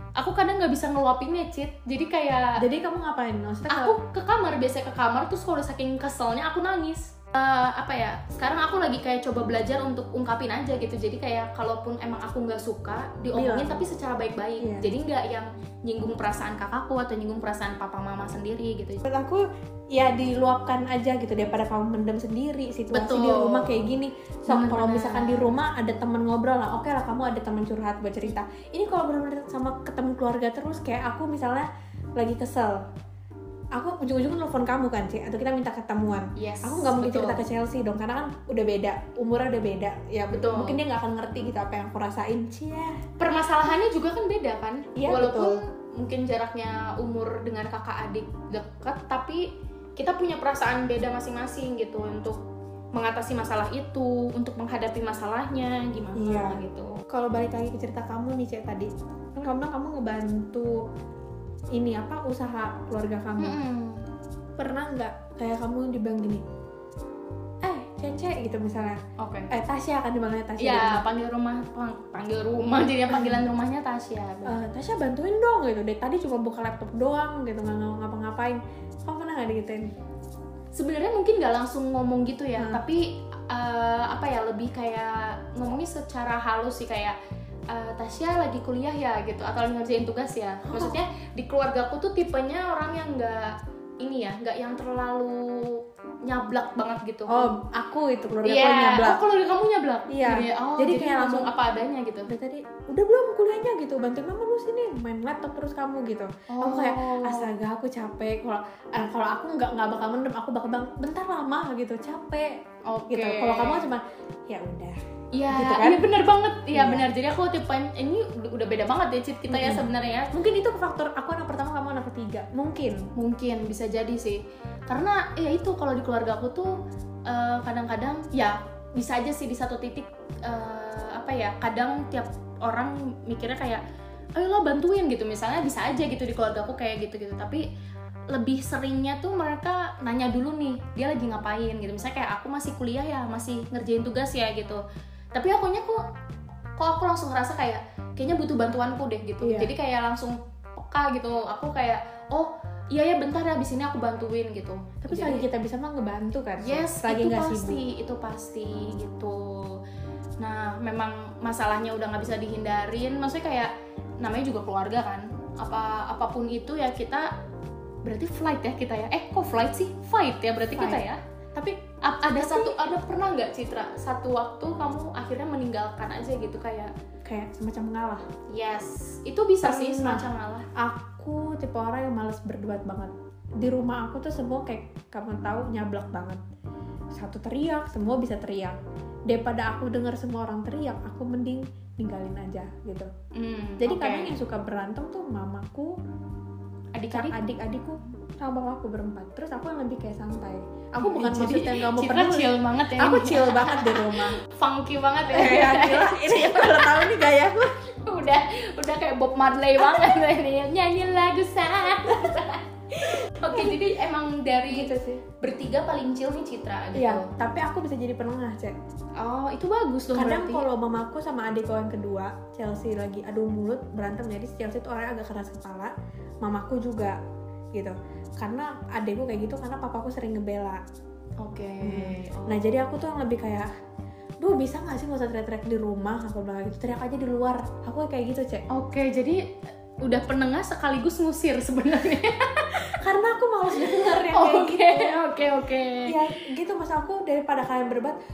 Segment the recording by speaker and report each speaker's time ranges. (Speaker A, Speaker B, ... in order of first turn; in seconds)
Speaker A: 0.2-2.6, 3.7-19.0, 22.9-23.8, 24.5-25.5, 36.4-37.4, 40.3-40.8, 43.2-52.4, 52.9-57.0, 63.4-64.0, 69.2-69.5, 70.6-74.6, 80.7-87.2, 87.7-97.5, 98.4-102.3, 106.5-107.5, 112.8-113.9, 115.3-120.3, 123.2-126.7, 127.3-133.8, 134.3-137.6, 138.3-144.8, 145.3-146.0, 146.8-155.4, 156.6-159.8, 160.4-167.3, 168.0-171.2, 172.0-176.9, 178.5-180.7, 193.3-194.3, 196.9-197.4, 201.0-217.3, 219.2-220.7, 231.4-232.6, 238.7-239.4, 240.0-242.9, 243.7-246.2
Speaker B: 2.6-4.0, 13.3-13.8, 14.6-14.9, 19.1-31.6, 32.2-32.9, 33.7-43.0, 45.0-45.6, 56.1-60.8, 61.7-63.6, 64.6-66.4, 67.6-69.0, 69.5-71.0, 73.1-73.4, 74.5-79.9, 82.6-82.8, 90.7-91.0, 97.3-99.2, 100.1-101.5, 102.3-115.0, 115.5-116.0, 116.7-117.1, 119.5-123.1, 149.4-149.7, 155.1-157.8, 170.7-172.8, 177.2-178.2, 179.6-186.4, 187.1-193.1, 193.8-195.9, 197.1-204.4, 205.3-207.7, 209.9-210.2, 212.9-213.8, 214.7-215.2, 216.9-218.7, 220.1-227.2, 227.7-230.8, 231.8-233.7, 234.4-238.7, 242.7-245.2, 246.1-248.2